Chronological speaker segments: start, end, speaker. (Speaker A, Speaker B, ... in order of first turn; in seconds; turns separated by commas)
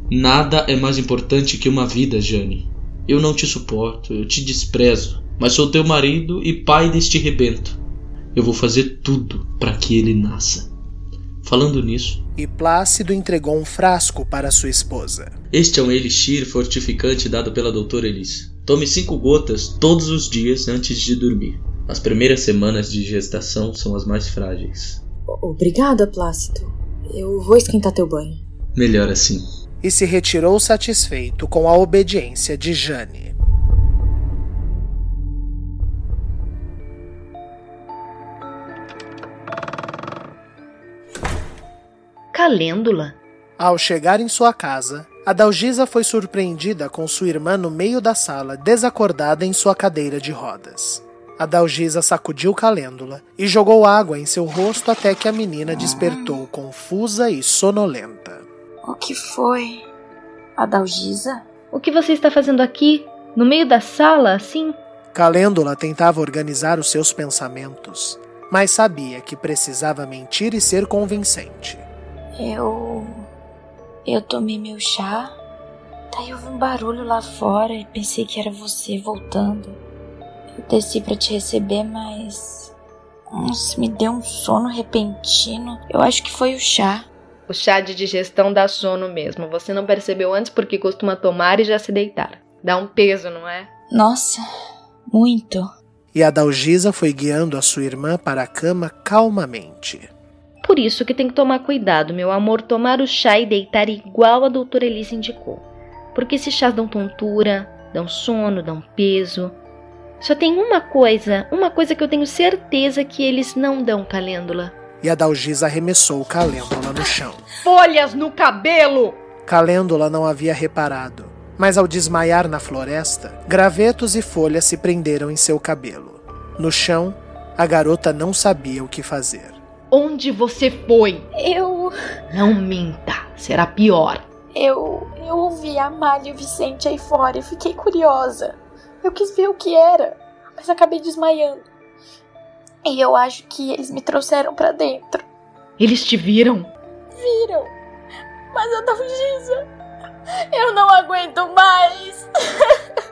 Speaker A: 0.1-7.8, Speaker A: 8.3-10.7, Speaker A: 11.4-12.2, Speaker B: 12.4-15.3, Speaker A: 15.5-25.0, Speaker C: 25.3-28.4, Speaker A: 28.7-29.4, Speaker B: 29.8-33.3, Speaker D: 42.3-43.2, Speaker B: 43.6-58.4, Speaker E: 58.9-59.8, Speaker E: 60.6-61.4, Speaker D: 61.7-64.8, Speaker B: 65.1-71.8, Speaker E: 72.4-73.2, Speaker E: 74.0-75.3, Speaker E: 76.1-79.8, Speaker E: 80.5-82.7, Speaker E: 83.3-87.1, Speaker D: 87.5-93.7, Speaker E: 93.9-94.4, Speaker E: 95.1-95.7, Speaker B: 96.1-100.1, Speaker D: 100.6-109.6, Speaker D: 110.2-114.7, Speaker B: 115.0-117.4, Speaker D: 117.6-119.2, Speaker B: 119.4-129.6, Speaker D: 129.9-131.2, Speaker E: 131.3-131.9, Speaker D: 132.3-134.3, Speaker E: 134.5-141.6, Speaker E: 142.8-145.2, Speaker D: 145.8-146.7, Speaker E: 147.1-147.7, Speaker E: 148.5-149.6, Speaker E: 150.5-152.8